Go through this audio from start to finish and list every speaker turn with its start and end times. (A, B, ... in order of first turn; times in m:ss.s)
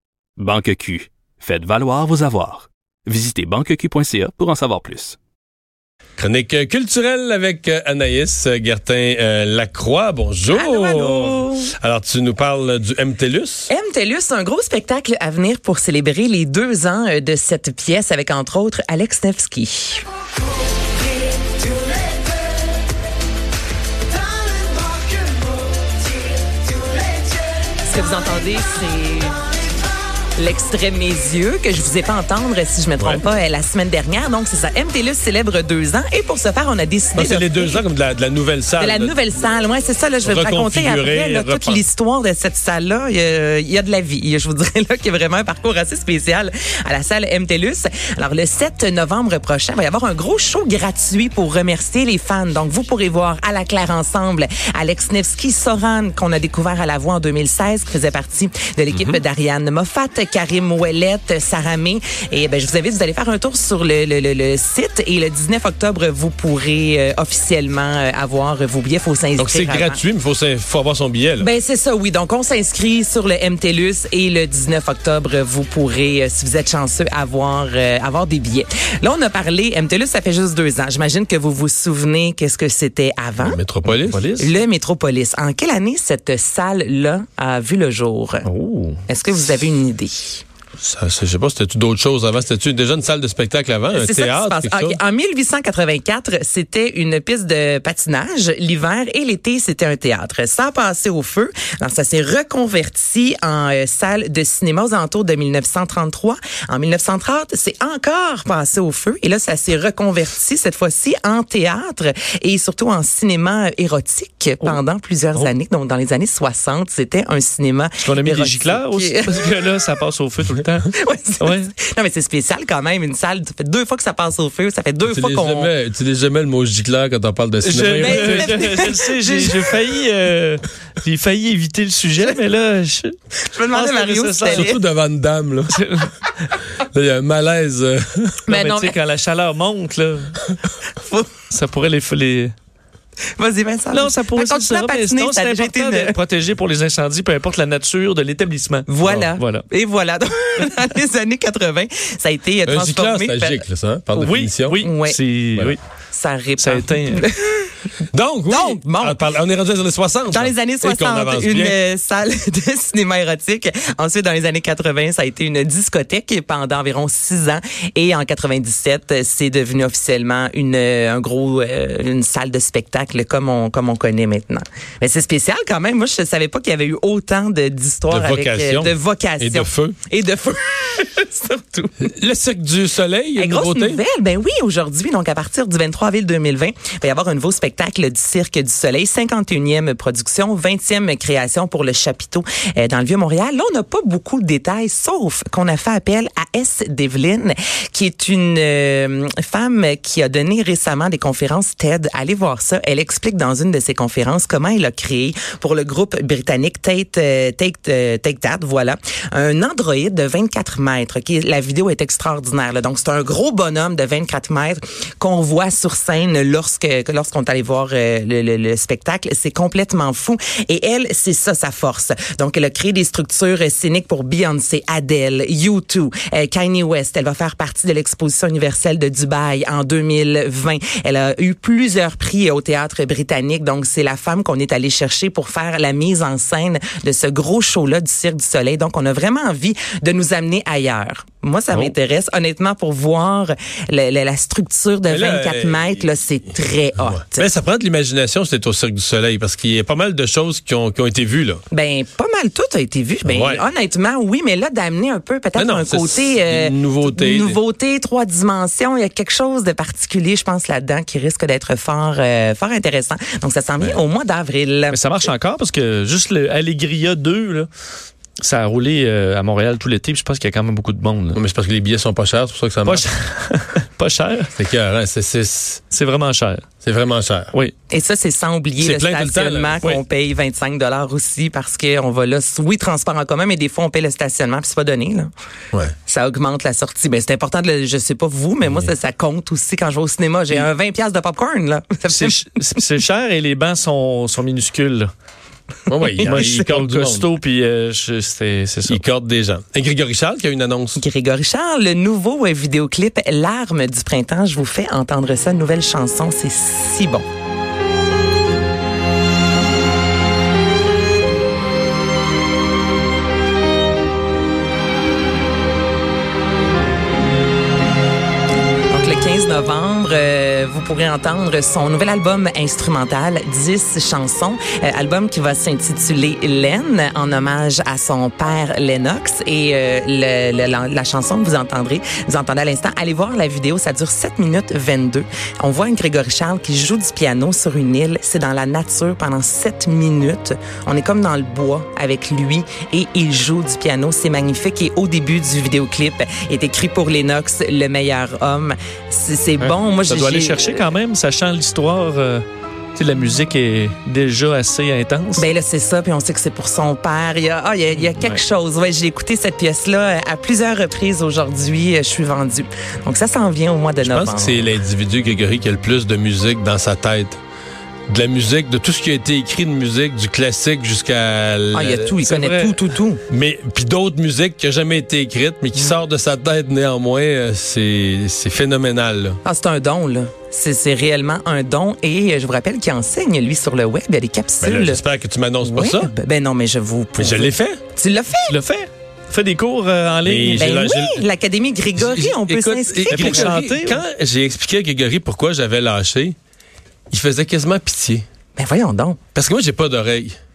0:00.4-0:05.2 A
0:06.2-0:13.7 B
0:10.5-0:11.7 C
0:13.7-0:20.0 C
0:27.8-0:29.4 C
0:30.4-0:37.8 C
0:33.0-0:33.2 B
0:37.1-0:39.1 B
0:38.8-1:10.0 C
0:40.2-0:41.9 B
0:58.9-0:59.2 B
1:09.4-1:11.5 B
1:11.4-1:23.6 C
1:23.4-1:24.2 B
1:23.8-1:24.5 D
1:24.4-1:28.5 C
1:28.4-1:29.0 D
1:29.1-1:30.4 C
1:30.8-1:35.0 B
1:33.9-1:59.4 C
1:58.0-2:01.7 D
2:00.9-2:05.7 C
2:05.0-2:08.8 B
2:07.6-2:14.7 D
2:08.0-2:09.9 C
2:13.5-2:14.8 C
2:14.4-2:15.8 B
2:15.7-2:16.1 D
2:16.8-2:18.4 B
2:18.5-2:19.0 C
2:18.5-2:20.5 D
2:21.0-2:21.3 C
2:21.5-2:22.5 D
2:23.4-2:26.2 C
2:23.9-2:28.9 D
2:28.9-2:33.6 C
2:29.4-2:29.6 D
2:32.6-2:34.8 B
2:34.1-2:35.2 C
2:34.2-2:35.8 D
2:36.1-2:37.7 C
2:36.6-2:37.3 D
2:38.1-2:41.8 B
2:38.5-2:39.2 C
2:40.3-3:02.0 C
2:58.1-3:00.0 B
3:02.0-3:04.0 B
3:03.4-4:07.5 C
4:05.1-4:06.0 B
4:07.0-4:11.6 B
4:11.7-4:25.0 C
4:13.2-4:13.6 B
4:15.6-4:17.6 B
4:24.9-4:27.7 D
4:28.4-4:31.4 D
4:31.3-4:33.1 B
4:32.8-4:34.5 D
4:34.5-4:35.8 B
4:35.9-4:36.7 D
4:36.8-4:37.5 B
4:37.9-4:45.3 C
4:38.8-4:39.8 B
4:46.0-4:52.4 C
4:52.1-4:55.1 D
4:55.9-4:57.3 B
4:56.1-4:56.7 C
4:56.2-4:59.0 D
4:58.9-5:01.0 B
5:01.0-5:07.2 C
5:18.9-5:50.8 C
5:49.6-5:55.5 D
5:55.4-6:04.6 C
5:58.0-5:58.4 D
6:04.0-6:07.4 B
6:08.1-6:12.1 B
6:11.7-6:13.2 C
6:12.2-6:12.8 D
6:13.3-6:19.4 B
6:19.4-6:25.0 C
6:24.6-6:26.1 B
6:25.6-6:28.6 C
6:27.2-6:27.8 B
6:28.4-6:30.7 D
6:30.2-6:31.2 B
6:30.6-6:33.6 C
6:32.0-6:36.4 B
6:33.1-6:34.0 D
6:37.1-6:38.2 B
6:38.6-6:39.2 C
6:39.3-6:40.4 B